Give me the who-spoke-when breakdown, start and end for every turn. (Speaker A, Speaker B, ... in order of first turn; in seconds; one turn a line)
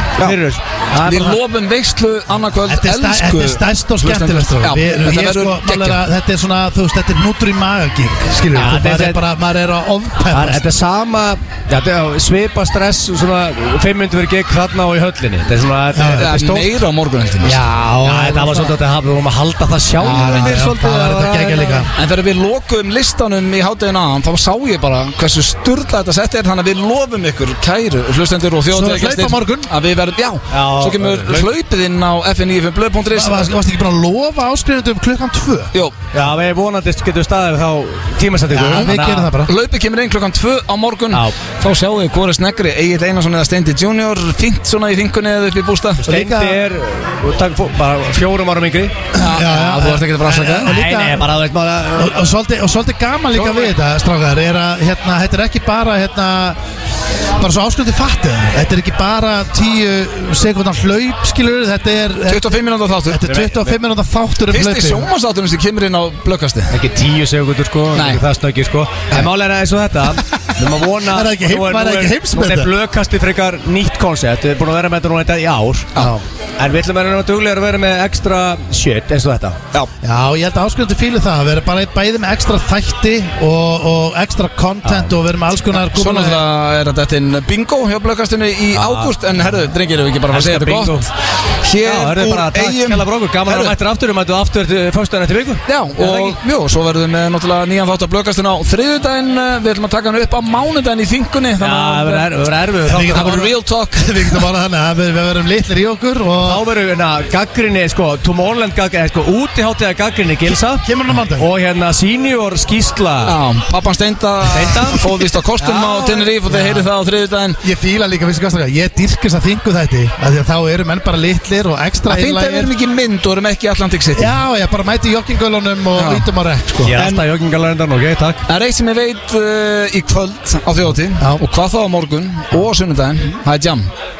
Speaker A: 0.2-1.4
Speaker B: 1.0-6.0
Speaker C: 2.7-10.6
Speaker A: 8.5-9.2
Speaker A: 10.3-16.7
Speaker C: 15.9-16.3
Speaker B: 16.1-17.6
Speaker A: 17.4-21.8
Speaker C: 17.9-18.7
Speaker B: 20.0-20.7
Speaker C: 20.1-21.9
Speaker B: 21.9-33.5
Speaker C: 28.7-29.7
Speaker A: 30.5-31.5
Speaker C: 33.1-35.7
Speaker A: 36.1-39.3
Speaker C: 38.5-39.5
Speaker B: 39.4-46.0
Speaker C: 46.0-46.6
Speaker A: 46.0-48.9
Speaker C: 49.1-51.3
Speaker B: 49.1-50.7
Speaker A: 50.6-52.2
Speaker C: 51.9-56.6
Speaker B: 53.3-53.7
Speaker C: 57.4-62.5
Speaker B: 62.3-63.2
Speaker C: 63.1-65.1
Speaker A: 63.2-63.8
Speaker B: 64.5-66.7
Speaker A: 66.7-79.6
Speaker B: 67.9-68.2
Speaker C: 71.1-72.7
Speaker C: 80.0-86.4
Speaker A: 84.8-85.2
Speaker B: 85.8-91.1
Speaker A: 88.7-89.1
Speaker A: 90.3-91.1
Speaker B: 91.6-93.7
Speaker A: 91.8-96.4
Speaker B: 95.7-102.3
Speaker A: 101.6-103.4
Speaker C: 102.9-106.6
Speaker B: 103.0-104.4
Speaker A: 106.4-113.3
Speaker C: 110.4-111.5
Speaker B: 113.2-117.6
Speaker A: 114.5-115.0
Speaker A: 115.6-116.2
Speaker C: 116.0-116.9
Speaker C: 117.6-122.7
Speaker B: 122.1-124.4
Speaker C: 124.1-126.9
Speaker B: 126.0-126.2
Speaker A: 126.8-128.4
Speaker B: 126.9-127.2
Speaker B: 128.5-133.9